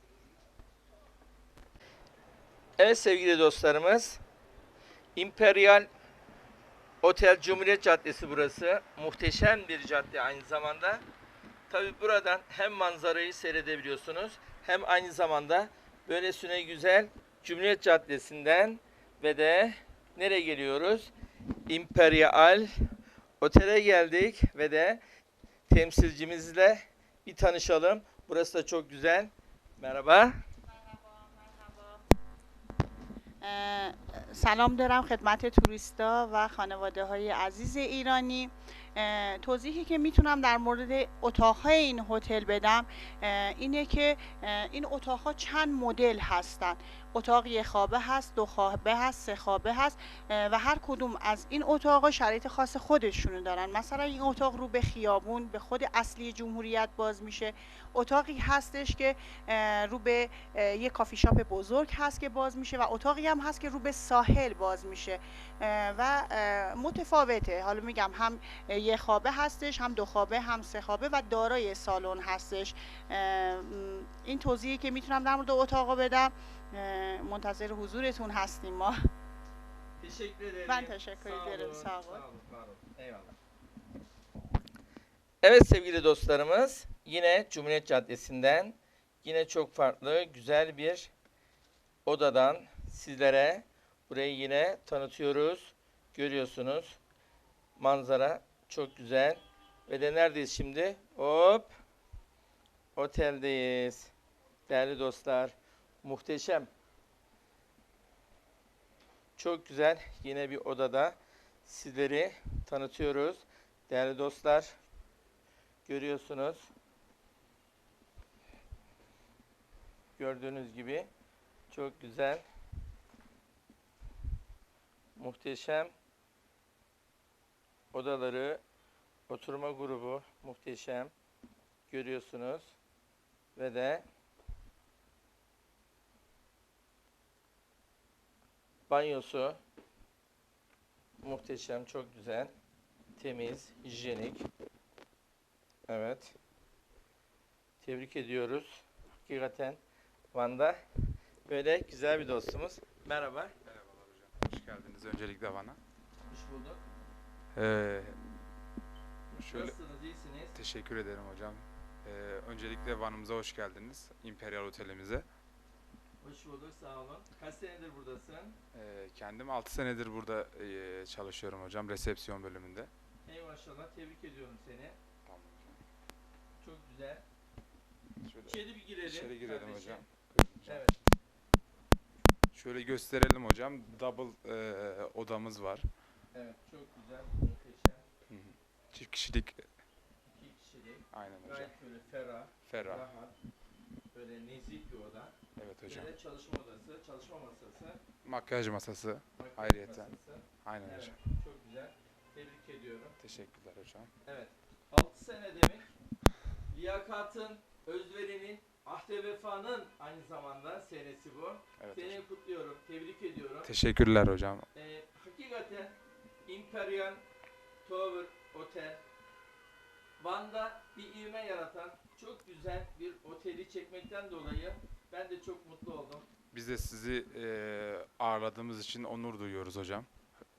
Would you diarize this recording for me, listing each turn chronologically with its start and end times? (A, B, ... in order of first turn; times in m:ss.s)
0:02.8-0:04.2 A
0:05.2-0:05.9 A
0:07.0-0:11.0 A
0:11.7-0:21.1 A
0:21.7-0:22.7 A
0:23.4-0:25.0 A
0:25.7-0:30.4 A
0:30.7-0:32.0 B
0:33.4-1:19.1 B
1:20.0-1:23.4 A
1:20.7-1:22.2 B
1:25.4-1:31.1 A
1:32.0-1:37.0 A
1:37.8-1:41.7 A
1:43.0-1:44.1 A
1:44.7-1:46.7 A
1:49.4-1:54.8 A
1:55.8-1:56.7 A
2:00.2-2:01.1 A
2:01.7-2:02.4 A
2:05.2-2:05.9 A
2:07.9-2:08.6 A
2:09.3-2:11.1 A
2:11.9-2:12.7 A
2:13.6-2:14.0 A
2:18.9-2:19.6 A
2:21.2-2:22.5 A
2:23.2-2:24.5 A
2:25.9-2:26.3 A
2:27.8-2:29.8 A
2:30.3-2:30.8 A
2:31.5-2:33.5 A
2:33.7-2:35.8 C
2:36.3-2:36.8 A
2:37.5-2:38.3 C
2:39.3-2:40.6 A
2:39.4-2:39.8 C
2:40.5-2:45.2 C
2:46.2-2:48.6 A
2:48.7-2:52.9 C
2:53.3-2:55.0 A
2:55.2-2:55.8 C
2:56.6-2:57.2 A
2:58.2-3:00.9 C
2:58.4-3:00.0 A
3:00.6-3:01.0 A
3:02.5-3:05.9 C
3:06.3-3:08.0 A
3:08.3-3:09.7 C
3:10.3-3:13.3 A
3:11.1-3:11.7 C
3:12.7-3:13.0 C
3:14.1-3:15.3 A
3:15.6-3:16.1 C
3:15.9-3:18.0 A
3:18.2-3:21.1 C
3:19.4-3:23.1 A
3:23.2-3:24.1 C
3:24.2-3:25.9 A
3:26.7-3:33.7 A
3:31.8-3:32.2 C
3:33.6-3:34.6 C
3:34.7-3:35.9 A
3:36.5-3:37.2 A
3:37.8-3:39.0 A
3:40.2-3:46.2 A
3:46.5-3:50.1 C